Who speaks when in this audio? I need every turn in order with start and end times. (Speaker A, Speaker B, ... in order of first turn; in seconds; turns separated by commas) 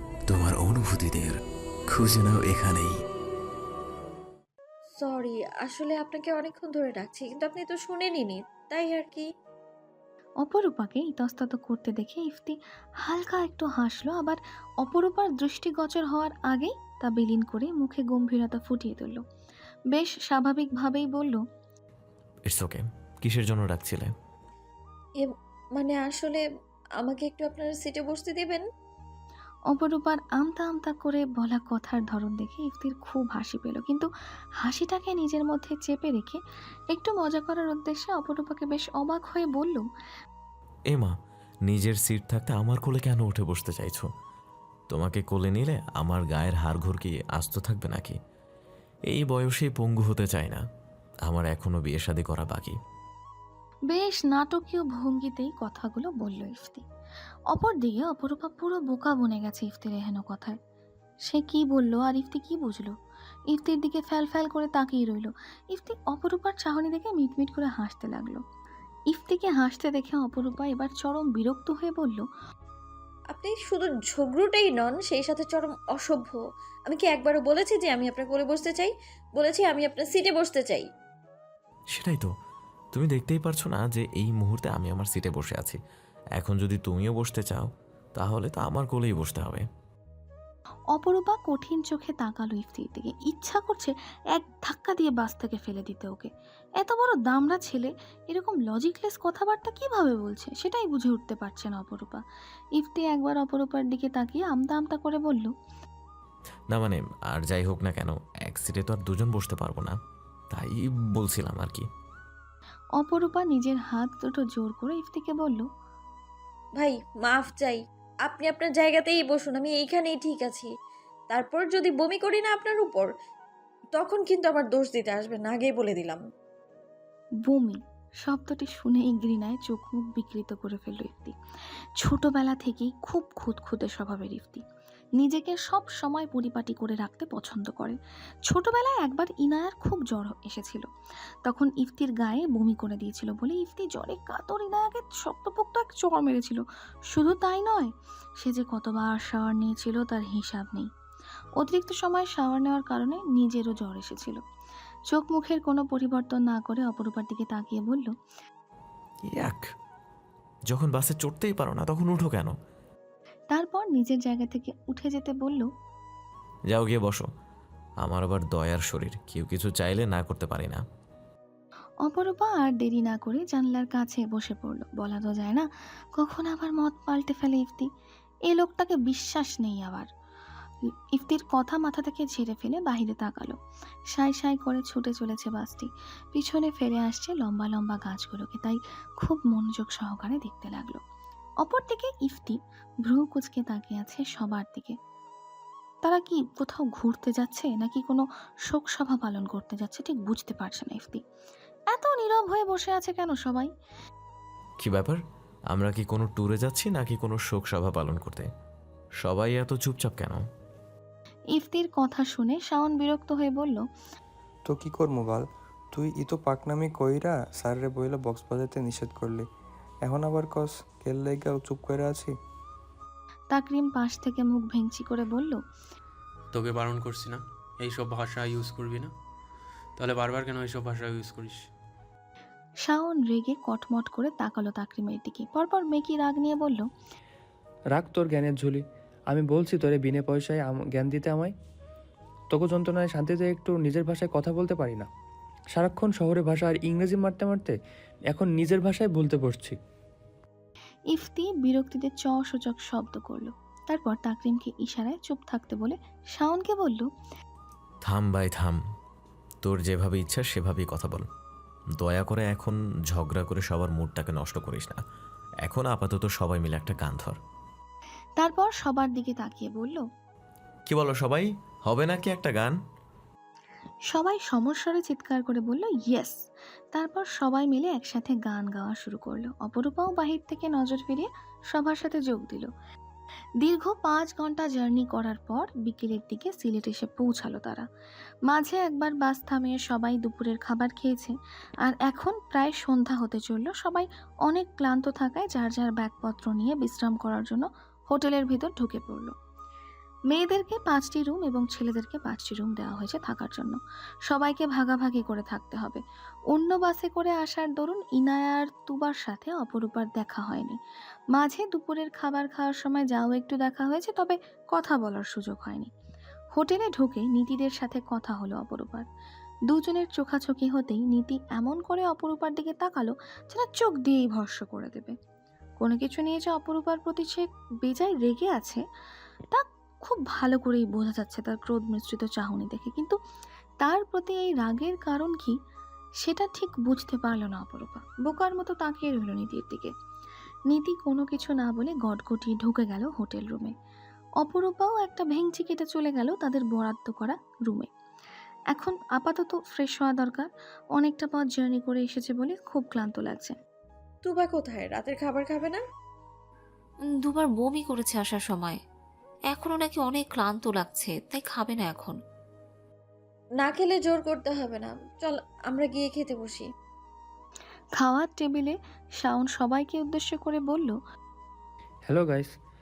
Speaker A: 0.3-1.4, Speaker A: 1.9-2.9, Speaker B: 5.0-9.3, Speaker C: 10.4-19.2, Speaker C: 19.9-21.4, Speaker D: 22.5-24.1, Speaker B: 25.2-26.4, Speaker B: 27.0-28.6, Speaker C: 29.7-34.1, Speaker C: 34.6-39.9, Speaker D: 41.7-44.1, Speaker D: 44.9-48.2, Speaker D: 49.1-50.6, Speaker D: 51.3-52.8, Speaker C: 53.9-56.8, Speaker C: 57.5-60.6, Speaker C: 61.3-62.9, Speaker C: 63.5-68.4, Speaker C: 69.1-72.3, Speaker B: 73.3-80.9, Speaker D: 81.9-82.3, Speaker D: 82.9-85.8, Speaker D: 86.4-89.7, Speaker C: 91.0-102.2, Speaker C: 102.8-105.5, Speaker D: 106.7-110.0, Speaker D: 110.5-111.8, Speaker C: 113.0-115.7, Speaker B: 116.8-120.7, Speaker B: 121.3-123.1, Speaker B: 124.0-126.2, Speaker C: 127.5-131.3, Speaker C: 132.0-134.6, Speaker C: 135.2-140.9, Speaker C: 141.4-150.9, Speaker C: 151.6-154.4, Speaker C: 155.1-158.1, Speaker D: 159.3-159.6, Speaker D: 160.7-162.5, Speaker C: 163.5-165.7, Speaker D: 166.7-167.3, Speaker D: 168.0-170.8, Speaker C: 172.1-175.7, Speaker C: 176.2-177.9, Speaker C: 178.5-180.1, Speaker C: 181.1-183.6, Speaker C: 184.1-191.0, Speaker C: 191.6-195.0, Speaker C: 196.0-201.2, Speaker C: 201.9-203.7, Speaker D: 204.8-205.2, Speaker D: 205.7-208.5, Speaker D: 209.2-210.4, Speaker C: 211.6-213.8, Speaker E: 214.7-219.5, Speaker E: 220.0-222.3, Speaker C: 223.5-225.6, Speaker F: 226.5-229.1, Speaker F: 230.0-231.6, Speaker C: 232.8-236.9, Speaker E: 237.9-241.5, Speaker E: 242.5-245.1, Speaker E: 245.8-247.8, Speaker E: 248.3-249.8, Speaker C: 251.1-257.1, Speaker D: 258.1-258.8, Speaker D: 259.6-261.3, Speaker D: 262.0-265.0, Speaker D: 265.6-267.4, Speaker C: 268.4-270.0, Speaker D: 270.9-272.8, Speaker C: 274.1-276.4, Speaker C: 276.9-282.7, Speaker C: 283.6-287.9, Speaker C: 288.5-299.3, Speaker C: 300.3-310.8, Speaker C: 311.3-315.9, Speaker C: 316.5-319.1, Speaker C: 319.7-325.1, Speaker C: 325.8-328.8, Speaker C: 329.5-333.2, Speaker C: 333.8-335.6, Speaker C: 336.2-339.9, Speaker C: 340.7-343.7, Speaker C: 344.4-347.9, Speaker C: 348.7-353.6, Speaker B: 354.2-355.8, Speaker G: 357.2-358.8, Speaker G: 359.5-362.2, Speaker B: 363.6-366.7, Speaker C: 368.0-371.0, Speaker E: 372.1-372.5